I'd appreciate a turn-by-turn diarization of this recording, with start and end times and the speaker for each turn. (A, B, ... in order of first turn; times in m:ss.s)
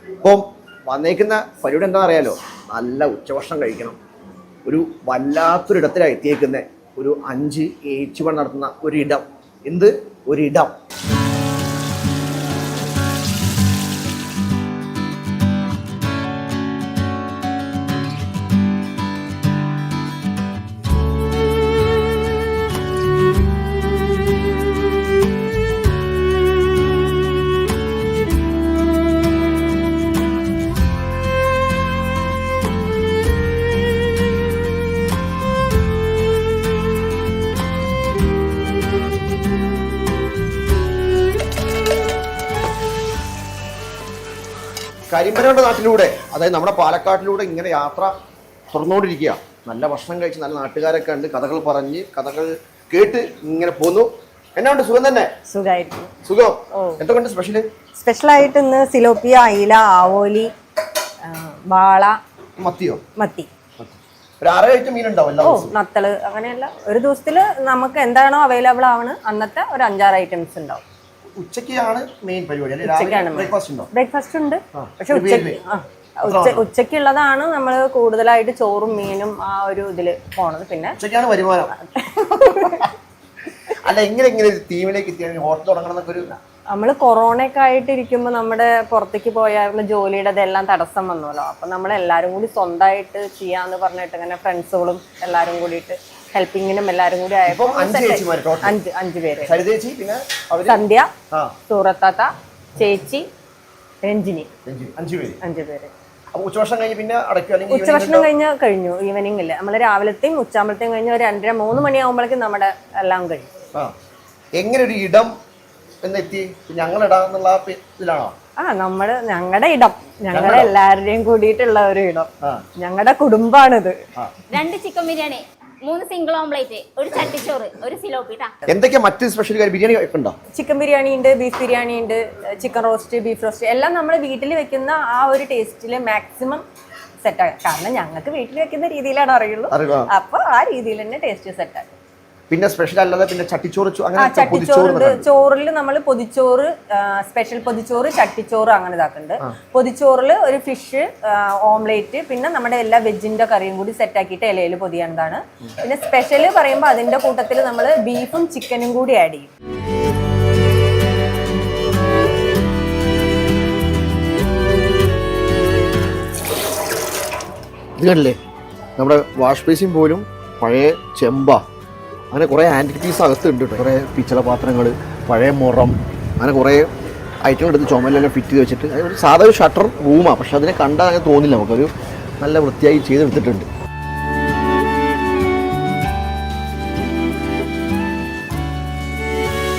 0:00.2-0:04.0 A
0:04.6-0:10.7 A
0:45.1-0:48.1 A
0:48.7-0:55.3 A
0:55.5-0:56.1 B
0:56.2-0:57.6 A
0:56.7-0:57.0 B
0:58.0-1:00.5 B
1:01.2-1:02.2 B
1:02.6-1:03.0 A
1:03.2-1:03.5 B
1:03.8-1:05.7 A
1:05.4-1:10.8 B
1:11.4-1:13.9 A
1:12.8-1:21.0 B
1:14.7-1:15.6 A
1:16.2-1:16.6 A
1:21.0-1:21.7 A
1:21.9-1:22.9 B
1:23.7-1:26.3 A
1:26.7-1:39.5 B
1:37.4-1:38.8 A
1:39.4-1:40.8 A
1:40.6-1:41.1 B
1:41.7-1:43.2 B
1:44.0-1:44.5 B
1:44.6-1:45.4 A
1:45.4-1:45.9 B
1:46.3-1:48.3 A
1:47.7-1:53.5 B
1:54.6-1:55.3 A
1:56.0-1:58.3 A
1:58.6-2:02.3 B
2:00.3-2:00.7 A
2:02.8-2:04.0 B
2:04.5-2:08.5 C
2:08.7-2:10.3 A
2:10.5-2:16.6 B
2:17.2-2:21.9 B
2:19.7-2:20.1 A
2:22.5-2:25.2 A
2:24.2-2:39.5 B
2:48.0-2:48.4 A
2:49.0-2:51.6 A
2:52.3-2:56.9 A
2:57.4-3:03.7 A